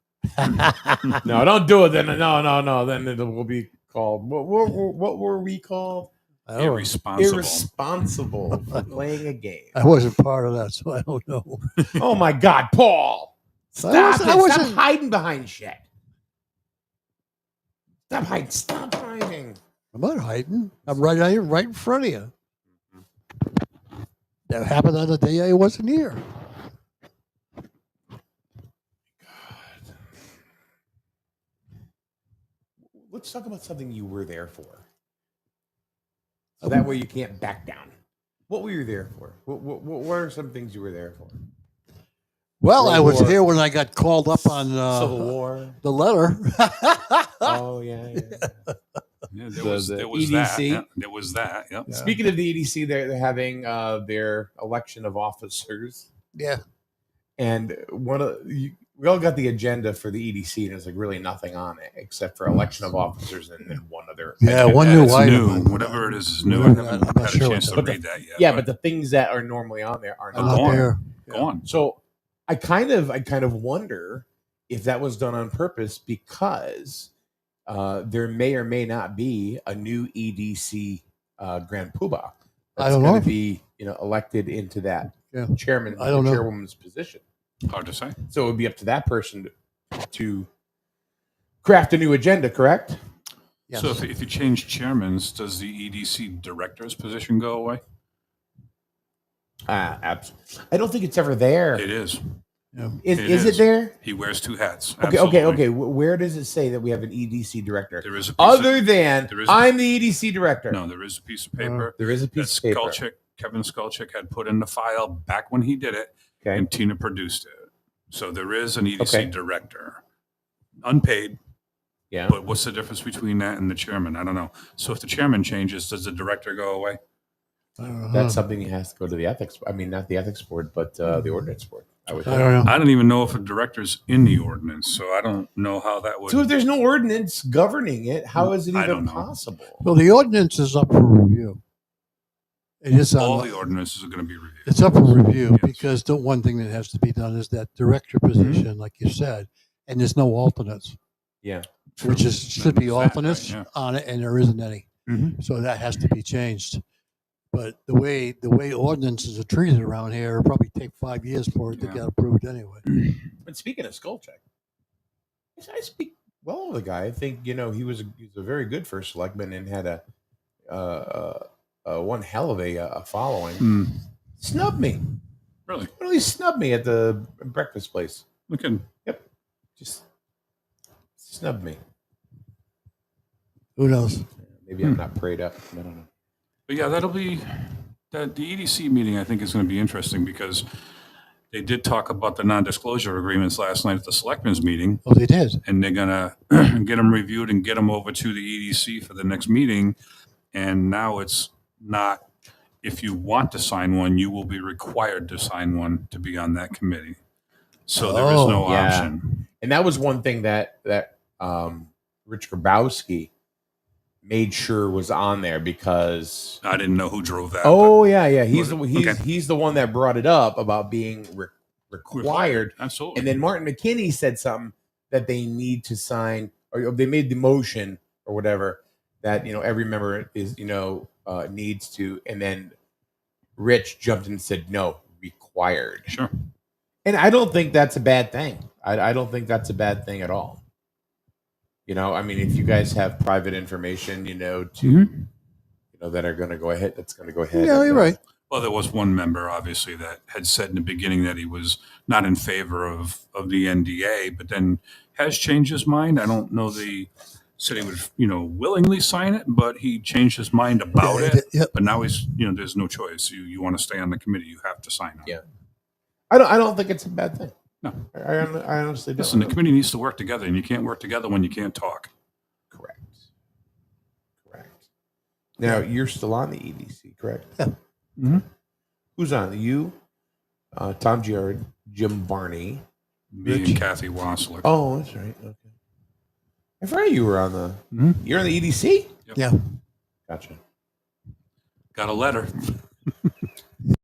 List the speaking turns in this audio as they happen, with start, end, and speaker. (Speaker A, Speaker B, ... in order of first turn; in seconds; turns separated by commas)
Speaker A: 0.4-1.2, Speaker B: 1.2-6.1, Speaker A: 6.5-6.9, Speaker C: 6.6-7.7, Speaker B: 7.1-9.8, Speaker A: 8.5-8.9, Speaker A: 9.7-11.9, Speaker B: 11.9-15.8, Speaker A: 13.8-14.8, Speaker B: 18.1-19.6, Speaker A: 19.9-22.3, Speaker A: 24.5-26.2, Speaker B: 29.2-29.9, Speaker B: 32.9-34.8, Speaker A: 36.6-36.9, Speaker B: 36.6-37.9, Speaker B: 38.5-41.3, Speaker A: 42.6-47.6, Speaker B: 42.8-43.4, Speaker B: 44.5-45.8, Speaker B: 47.4-48.6, Speaker C: 49.3-52.0, Speaker B: 49.5-50.9, Speaker A: 51.9-52.2, Speaker B: 52.0-56.1, Speaker A: 56.3-56.6, Speaker B: 57.4-65.4, Speaker A: 64.4-68.0, Speaker C: 64.8-68.7, Speaker B: 67.7-70.9, Speaker A: 70.3-71.5, Speaker C: 70.3-71.7, Speaker B: 71.6-77.1, Speaker B: 77.7-87.2, Speaker A: 82.8-83.3, Speaker A: 85.2-86.4, Speaker C: 87.7-88.2, Speaker B: 88.3-89.5, Speaker B: 90.0-90.5, Speaker B: 91.6-93.0, Speaker A: 93.7-94.0, Speaker C: 93.7-97.8, Speaker B: 99.7-101.9, Speaker C: 101.7-102.3, Speaker A: 102.7-103.0, Speaker B: 103.0-103.9, Speaker C: 103.1-105.6, Speaker B: 105.0-110.8, Speaker C: 108.0-109.7, Speaker C: 110.7-120.0, Speaker A: 111.6-111.8, Speaker B: 112.0-113.0, Speaker B: 119.0-119.3, Speaker C: 120.8-121.4, Speaker B: 122.1-122.4, Speaker C: 122.3-127.0, Speaker A: 127.8-128.4, Speaker B: 128.1-132.6, Speaker A: 132.2-132.7, Speaker C: 132.6-136.5, Speaker B: 136.3-139.8, Speaker C: 138.7-139.3, Speaker A: 139.8-141.6, Speaker A: 142.8-143.7, Speaker C: 143.2-145.9, Speaker A: 144.6-151.0, Speaker C: 148.3-148.7, Speaker C: 152.0-153.7, Speaker A: 152.0-156.8, Speaker C: 155.1-155.4, Speaker A: 157.5-162.8, Speaker C: 161.7-162.0, Speaker B: 163.4-164.4, Speaker B: 165.6-170.0, Speaker B: 170.7-173.7, Speaker C: 173.6-174.0, Speaker B: 174.4-175.0, Speaker B: 175.9-178.2, Speaker C: 178.5-178.9, Speaker B: 179.8-180.0, Speaker B: 181.2-181.8, Speaker A: 183.8-184.3, Speaker B: 184.6-186.1, Speaker C: 186.7-190.7, Speaker C: 191.5-195.0, Speaker A: 195.0-195.6, Speaker C: 195.6-200.0, Speaker C: 200.5-202.2, Speaker C: 202.8-207.2, Speaker C: 207.9-209.4, Speaker A: 207.9-208.8, Speaker B: 208.6-213.3, Speaker B: 214.2-216.6, Speaker C: 216.6-219.2, Speaker B: 217.6-232.7, Speaker C: 222.1-223.3, Speaker B: 233.6-236.1, Speaker B: 237.0-240.6, Speaker B: 241.8-245.1, Speaker C: 244.8-245.2, Speaker B: 245.9-248.1, Speaker A: 247.5-248.2, Speaker C: 248.5-265.4, Speaker A: 260.9-261.7, Speaker B: 266.3-267.5, Speaker C: 267.8-268.1, Speaker B: 268.1-269.6, Speaker C: 269.2-272.1, Speaker B: 272.7-273.2, Speaker B: 274.4-274.8, Speaker B: 275.6-277.6, Speaker C: 278.2-278.4, Speaker B: 279.2-279.9, Speaker B: 280.7-282.8, Speaker C: 283.3-284.7, Speaker B: 283.4-283.9, Speaker B: 284.6-285.7, Speaker B: 286.8-289.1, Speaker C: 287.9-288.2, Speaker B: 290.3-290.6, Speaker C: 291.9-292.8